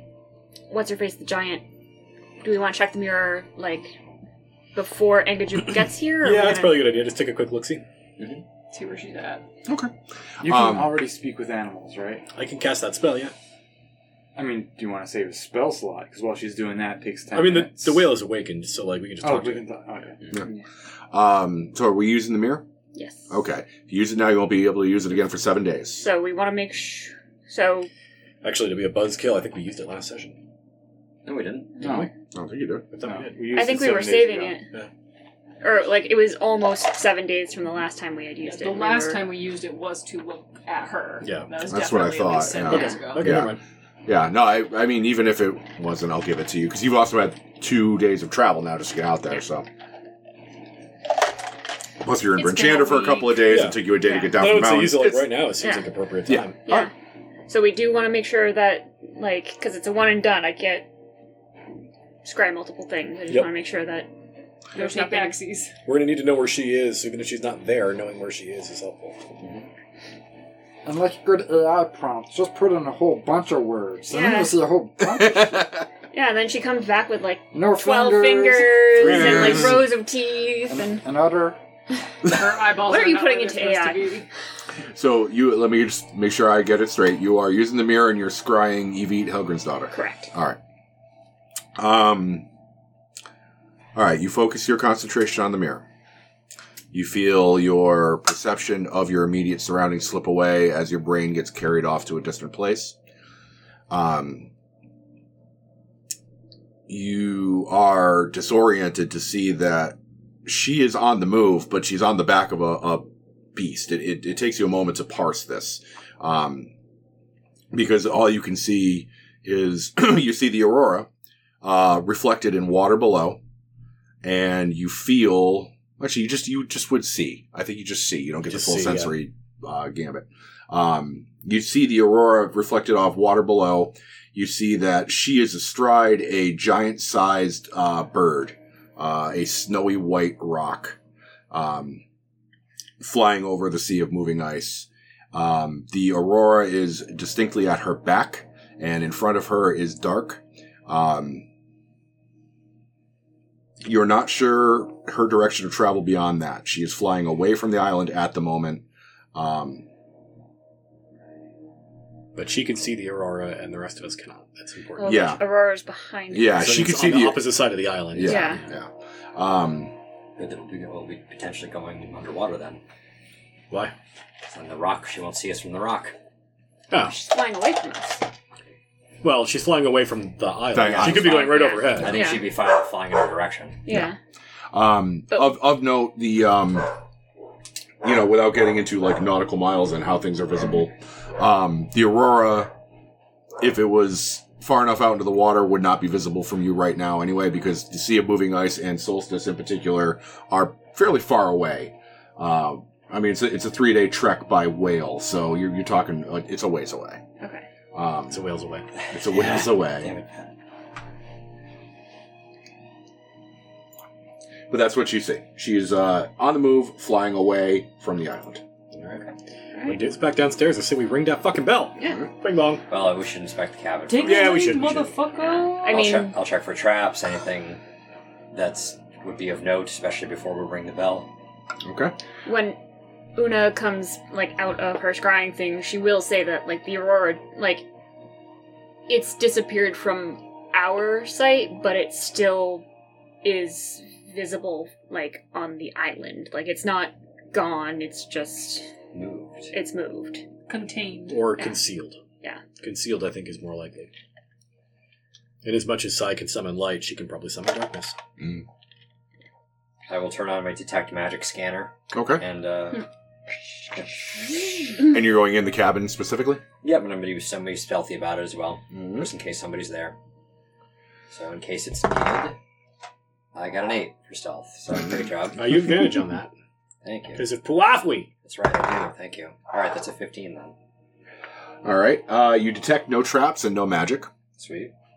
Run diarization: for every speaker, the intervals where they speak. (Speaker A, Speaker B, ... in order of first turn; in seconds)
Speaker A: 0.7-1.6, 2.4-3.9, 4.8-7.0, 22.9-23.3, 26.0-27.9, 33.5-34.7, 35.6-39.2, 52.4-53.4, 54.0-54.4, 55.6-55.9, 56.6-56.9, 57.5-60.9, 62.2-64.1, 64.7-65.4, 74.1-74.6, 76.1-81.0, 82.8-84.2, 89.9-90.3, 165.0-166.8, 168.2-168.6, 177.0-178.2, 181.2-182.5, 183.8-184.2, 207.4-207.7, 225.8-226.4, 232.5-232.8, 233.3-237.9, 239.1-242.9, 243.4-248.9, 249.7-250.4
Speaker B: 6.2-7.8, 12.3-13.3, 17.3-19.7, 28.4-30.4, 31.8-32.1, 32.9-33.4, 41.2-41.5, 42.7-43.6, 53.5-56.6, 65.9-69.2, 79.1-79.6, 128.5-129.2, 162.3-165.4, 166.6-168.6, 176.9-177.2, 179.2-182.2, 208.3-208.9, 219.8-222.8, 224.2-225.2, 251.3-252.2, 252.8-254.1, 255.6-258.2, 275.6-276.5, 277.4-278.3
Speaker C: 8.7-9.5, 38.4-43.4, 64.7-65.7, 82.2-84.3, 224.1-226.1, 250.7-251.5
Speaker D: 9.7-11.1, 21.1-22.6, 23.3-26.1, 32.3-32.9, 41.7-49.7, 52.0-55.4, 56.3-56.9, 75.0-75.9, 79.0-79.8, 84.9-90.6, 91.8-92.5, 94.0-95.9, 96.9-103.0, 103.9-104.5, 106.9-116.7, 117.7-121.1, 121.6-123.4, 124.2-141.0, 141.5-142.0, 143.0-151.5, 153.8-159.9, 165.0-165.4, 166.3-167.6, 168.1-170.0, 180.7-181.5, 184.7-186.9, 188.0-192.7, 193.6-207.2, 207.9-208.4, 209.1-210.1, 214.7-218.6, 231.8-232.2, 258.4-258.6, 262.1-262.4, 265.0-266.6, 268.9-269.3, 281.8-284.3
Speaker E: 10.4-12.3, 14.4-18.1, 19.2-20.2, 31.8-32.1, 33.0-34.6
Speaker F: 31.2-32.0, 170.4-172.8, 174.4-176.2, 180.8-183.8, 209.0-210.5, 219.0-219.3, 222.9-224.8, 225.8-227.8, 228.5-231.3, 249.1-249.7, 260.1-263.1, 263.9-265.0, 266.8-270.2, 271.3-272.6, 273.6-275.6, 277.0-277.4, 278.4-280.8, 284.6-284.9
Speaker G: 70.8-75.7, 77.5-79.9, 80.7-81.6